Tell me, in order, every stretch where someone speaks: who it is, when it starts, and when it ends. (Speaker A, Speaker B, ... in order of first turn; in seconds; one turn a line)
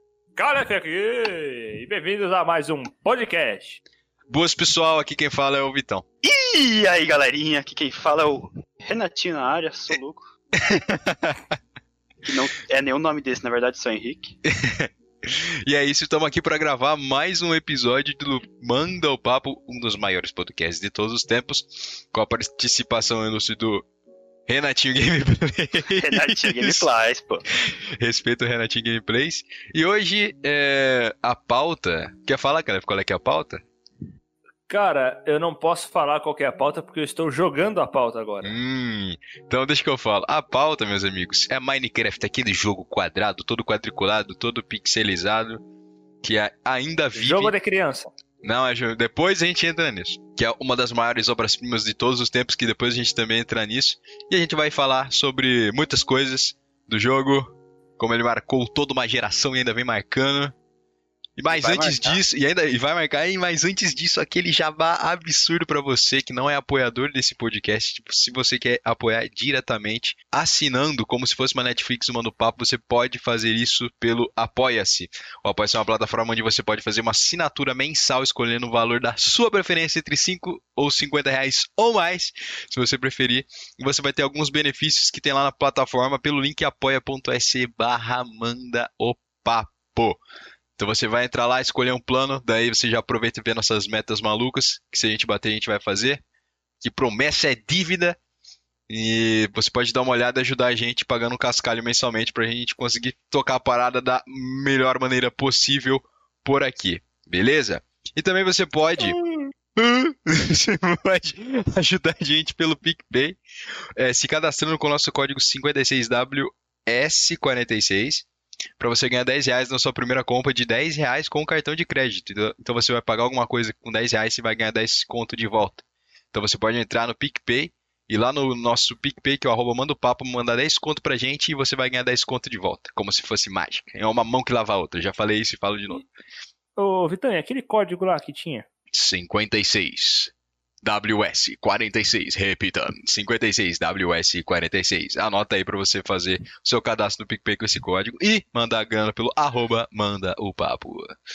Speaker A: 0.4-3.8
Speaker B: 4.3-6.0
Speaker C: 6.2-10.3
Speaker B: 10.6-11.6
Speaker C: 12.2-14.4
Speaker B: 14.5-23.9
Speaker B: 24.5-26.9
Speaker C: 26.0-27.4
Speaker B: 27.7-33.6
Speaker A: 34.7-38.6
Speaker B: 38.4-45.6
Speaker B: 46.2-47.5
Speaker A: 47.1-48.1
Speaker B: 48.4-60.5
Speaker B: 61.4-90.2
Speaker C: 61.5-62.2
Speaker B: 90.8-96.2
Speaker B: 96.8-98.2
Speaker B: 98.9-109.2
Speaker B: 109.8-113.4
Speaker B: 114.0-118.3
Speaker B: 118.8-136.1
Speaker A: 136.8-138.7
Speaker B: 138.9-151.2